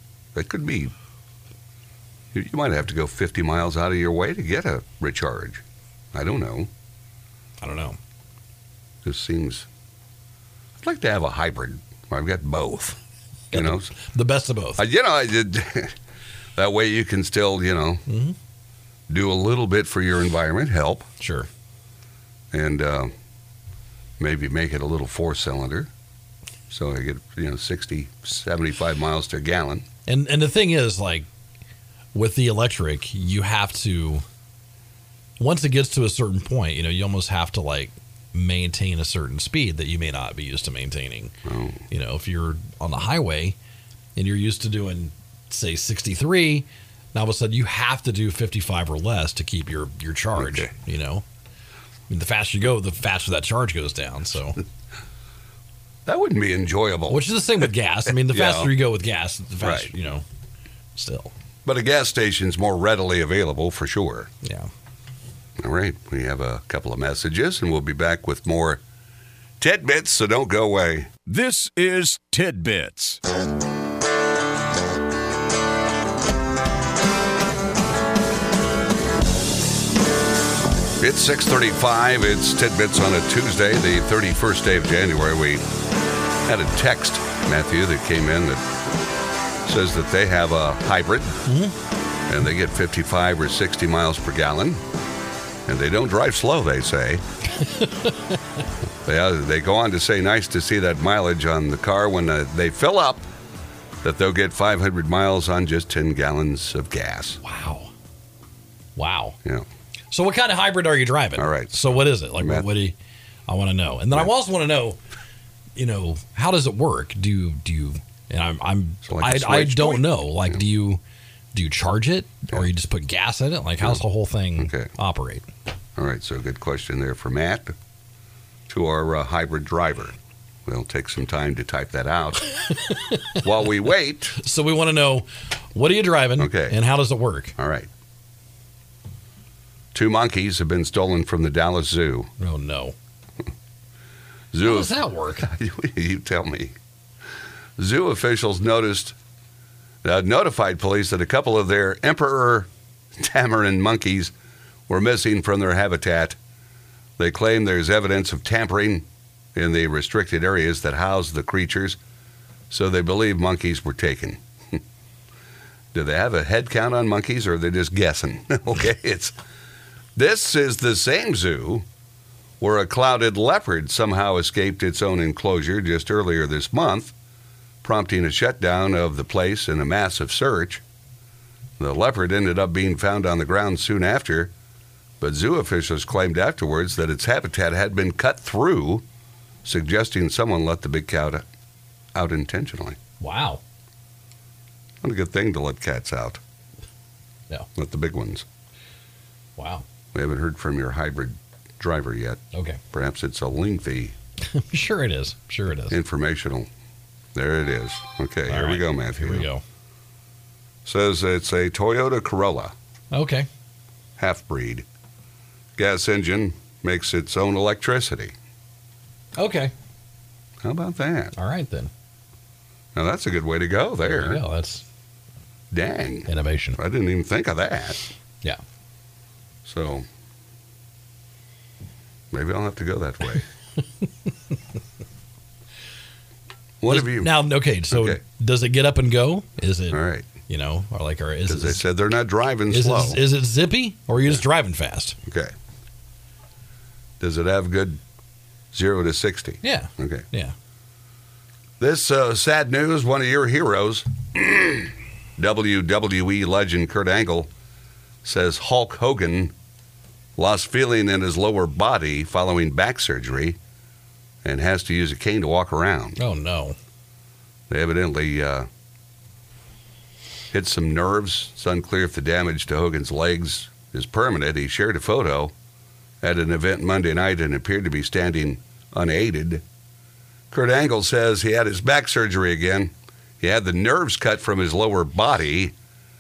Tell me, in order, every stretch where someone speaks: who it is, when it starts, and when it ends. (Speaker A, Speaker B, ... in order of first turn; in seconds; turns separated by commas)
Speaker A: 0.3-0.9, Speaker A: 2.3-5.6, Speaker A: 6.1-6.7, Speaker B: 7.6-8.0, Speaker A: 9.0-9.7, Speaker A: 10.8-13.0, Speaker A: 13.5-13.9, Speaker B: 13.5-14.8, Speaker A: 14.8-16.0, Speaker A: 16.6-18.0, Speaker B: 18.1-18.4, Speaker A: 19.1-21.1, Speaker B: 21.2-21.5, Speaker A: 22.5-23.1, Speaker A: 24.2-25.9, Speaker A: 26.7-29.9, Speaker B: 30.1-31.3, Speaker B: 32.1-34.2, Speaker B: 35.4-41.3, Speaker A: 41.5-41.8, Speaker B: 41.9-43.6, Speaker B: 44.2-51.2, Speaker A: 50.4-50.7, Speaker B: 52.1-54.6, Speaker A: 56.1-57.3, Speaker B: 57.1-60.2, Speaker A: 58.2-58.7, Speaker A: 59.6-59.9, Speaker B: 61.0-61.3, Speaker A: 61.6-64.3, Speaker B: 64.4-64.7, Speaker A: 65.6-68.8, Speaker A: 69.6-71.1, Speaker C: 71.3-73.2, Speaker A: 81.0-85.7, Speaker A: 86.5-88.7, Speaker A: 89.7-91.4, Speaker B: 91.5-91.8, Speaker A: 92.3-94.8, Speaker A: 95.7-97.2, Speaker B: 97.6-98.2, Speaker A: 99.0-103.2, Speaker A: 104.0-107.4, Speaker B: 107.4-107.9, Speaker B: 109.0-109.4, Speaker B: 110.1-113.0, Speaker A: 111.4-112.7, Speaker B: 113.5-115.0, Speaker B: 115.8-121.0, Speaker A: 119.0-120.5, Speaker B: 121.5-125.5, Speaker A: 124.6-124.9, Speaker A: 126.0-127.8, Speaker A: 128.7-132.5, Speaker B: 132.7-133.4, Speaker A: 133.3-134.4, Speaker B: 134.3-137.6, Speaker A: 136.4-136.8, Speaker A: 137.6-137.9, Speaker A: 139.9-142.3, Speaker B: 142.4-142.9, Speaker A: 144.5-146.8, Speaker B: 144.6-145.5, Speaker A: 147.8-149.2, Speaker A: 150.0-154.3, Speaker A: 154.9-156.4, Speaker A: 157.2-162.0, Speaker A: 162.7-164.8, Speaker A: 165.9-169.3, Speaker A: 170.2-171.9, Speaker A: 172.6-177.1, Speaker A: 177.8-180.8, Speaker A: 181.8-184.5, Speaker A: 185.2-189.1, Speaker A: 189.6-191.4, Speaker A: 192.2-193.0, Speaker B: 193.2-193.6, Speaker A: 195.0-196.4, Speaker A: 197.8-198.4, Speaker B: 199.6-199.8, Speaker A: 200.1-204.2, Speaker B: 202.5-202.8, Speaker B: 204.4-206.0, Speaker A: 205.9-206.7, Speaker A: 207.3-209.5, Speaker B: 208.5-209.6, Speaker A: 210.8-212.7, Speaker B: 213.1-213.5, Speaker A: 214.2-214.9, Speaker A: 215.8-218.3, Speaker B: 219.4-219.7, Speaker A: 220.6-221.3, Speaker B: 221.4-221.9, Speaker A: 222.9-224.4, Speaker B: 224.1-224.8, Speaker A: 225.7-228.1, Speaker B: 226.3-226.8, Speaker A: 229.7-230.1, Speaker A: 232.3-233.5, Speaker A: 236.8-237.3, Speaker B: 236.9-241.8, Speaker A: 237.9-238.2, Speaker A: 239.9-240.3, Speaker A: 241.5-243.2, Speaker B: 242.7-245.2, Speaker A: 245.2-245.5, Speaker A: 247.2-248.0, Speaker A: 248.7-250.2, Speaker B: 249.6-250.5, Speaker A: 251.8-257.5, Speaker A: 258.2-259.5, Speaker A: 260.4-263.6, Speaker A: 264.4-266.2, Speaker B: 266.2-266.8, Speaker A: 267.7-268.7, Speaker A: 270.5-275.5, Speaker A: 276.2-279.6, Speaker A: 280.5-285.7